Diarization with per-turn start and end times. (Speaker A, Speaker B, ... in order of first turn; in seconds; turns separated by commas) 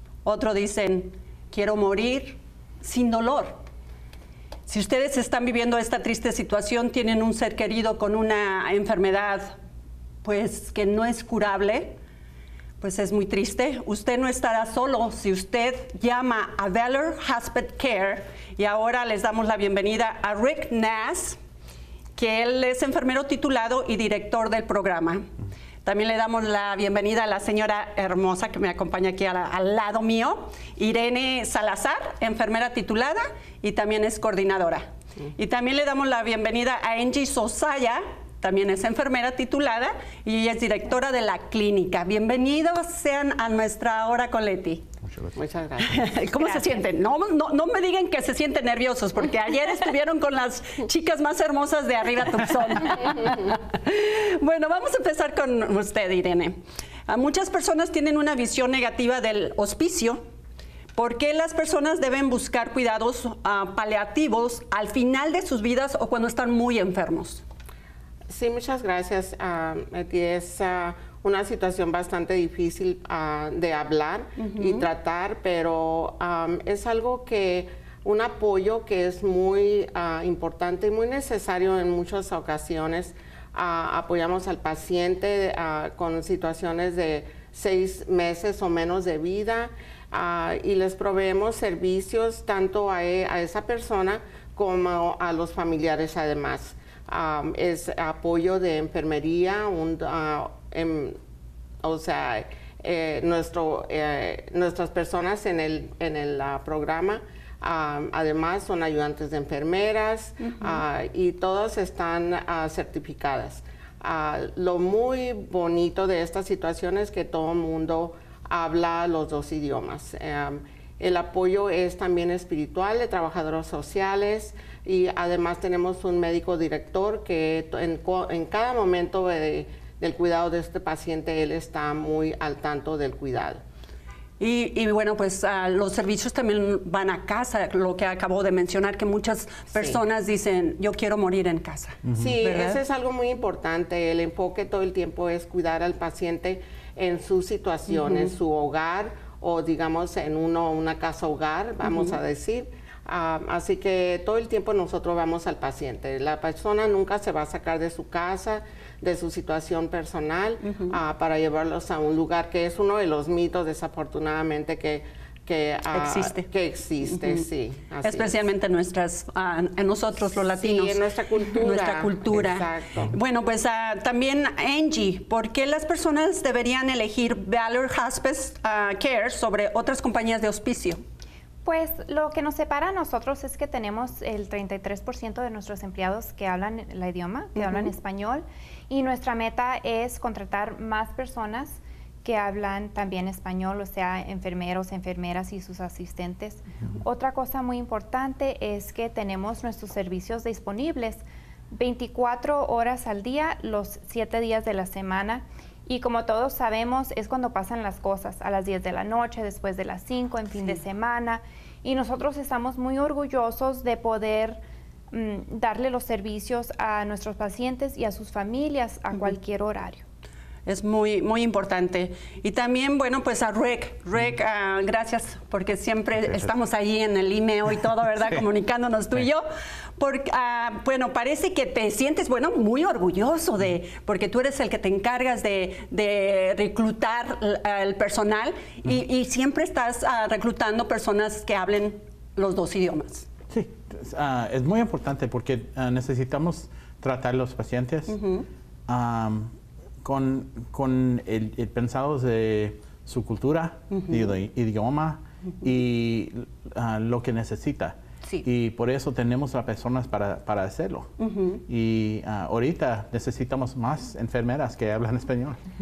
Speaker A: 0.2-3.6, Speaker A: 4.7-9.5, Speaker A: 10.2-11.9, Speaker A: 12.8-21.4, Speaker A: 22.1-25.3, Speaker A: 25.8-44.9, Speaker B: 45.4-46.1, Speaker A: 45.8-56.6, Speaker A: 57.1-60.2, Speaker A: 61.0-67.4, Speaker B: 68.3-101.2, Speaker A: 74.4-74.8, Speaker B: 101.8-133.6, Speaker A: 110.4-110.8, Speaker A: 134.4-142.8, Speaker B: 139.7-140.0, Speaker B: 142.2-168.4, Speaker A: 147.9-148.3, Speaker A: 151.8-152.2, Speaker A: 160.6-161.0, Speaker A: 165.9-166.5, Speaker A: 167.2-167.4, Speaker A: 168.0-181.0, Speaker B: 170.6-173.1, Speaker C: 181.6-214.6, Speaker A: 187.6-187.9, Speaker C: 215.1-220.0, Speaker A: 220.7-229.4, Speaker A: 230.0-243.3, Speaker D: 243.5-248.2, Speaker A: 248.1-248.4, Speaker D: 248.9-249.5, Speaker D: 250.0-261.1, Speaker A: 261.2-261.6, Speaker D: 261.7-265.6